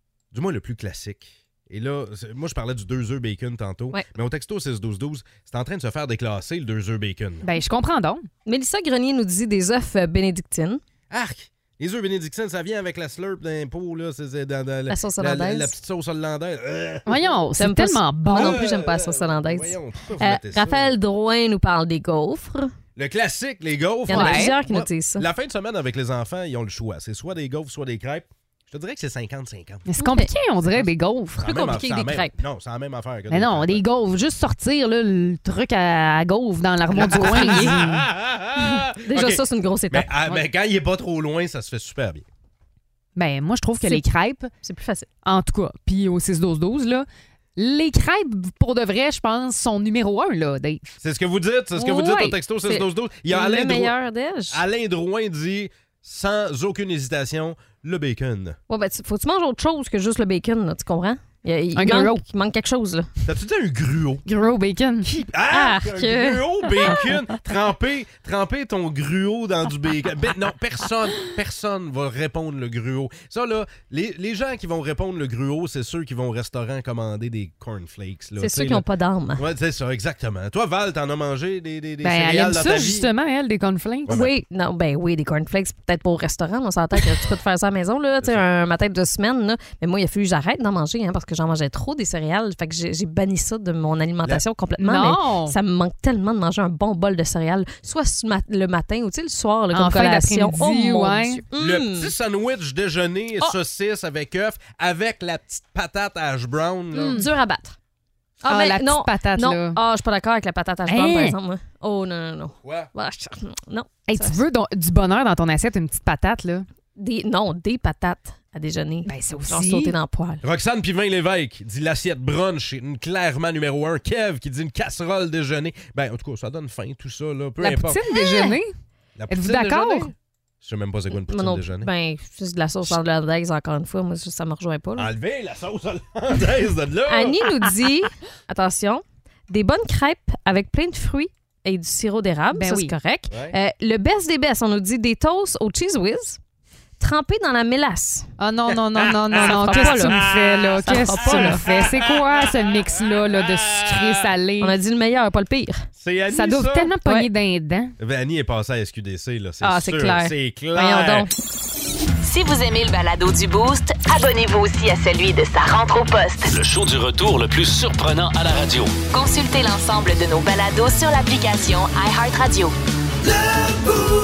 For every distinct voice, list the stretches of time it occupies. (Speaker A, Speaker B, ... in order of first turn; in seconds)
Speaker A: 0.3-7.5, 11.1-17.4, 18.3-20.9, 22.9-29.9, 31.4-33.8, 37.0-42.2, 51.0-53.9, 54.5-58.6, 63.2-64.2, 65.0-78.8, 79.4-83.1, 84.1-84.3, 101.6-107.2, 112.6-112.9, 120.4-128.0, 129.2-131.9, 134.9-137.5, 149.0-154.3, 156.0-156.9, 158.0-161.3
Speaker B: 7.4-8.2, 17.1-18.6, 24.1-24.5, 29.9-31.4, 33.3-38.0, 43.1-44.5, 45.2-50.9, 61.8-62.2, 64.2-65.1, 82.0-84.2, 94.8-95.6, 99.7-101.4, 106.9-107.3, 108.5-109.8, 110.8-111.3, 114.1-116.7, 119.1-119.9, 127.6-128.7, 129.3-130.1, 142.5-142.9, 148.4-154.7, 156.3-157.9
Speaker C: 8.4-10.8, 14.9-15.7, 17.6-22.7, 24.1-25.3, 30.0-30.3, 31.4-32.4, 36.9-37.9, 38.6-40.4, 44.6-45.1, 51.8-54.6, 58.7-63.1, 65.5-67.0, 78.4-79.4, 84.1-102.1, 106.9-107.8, 108.4-114.4, 117.0-120.4, 128.1-128.6, 131.1-135.1, 137.1-146.4, 147.0-148.3, 149.3-150.2, 150.8-151.6, 154.6-155.9, 159.6-161.3
Speaker D: 162.2-166.5, 169.1-172.7
Speaker E: 166.5-168.9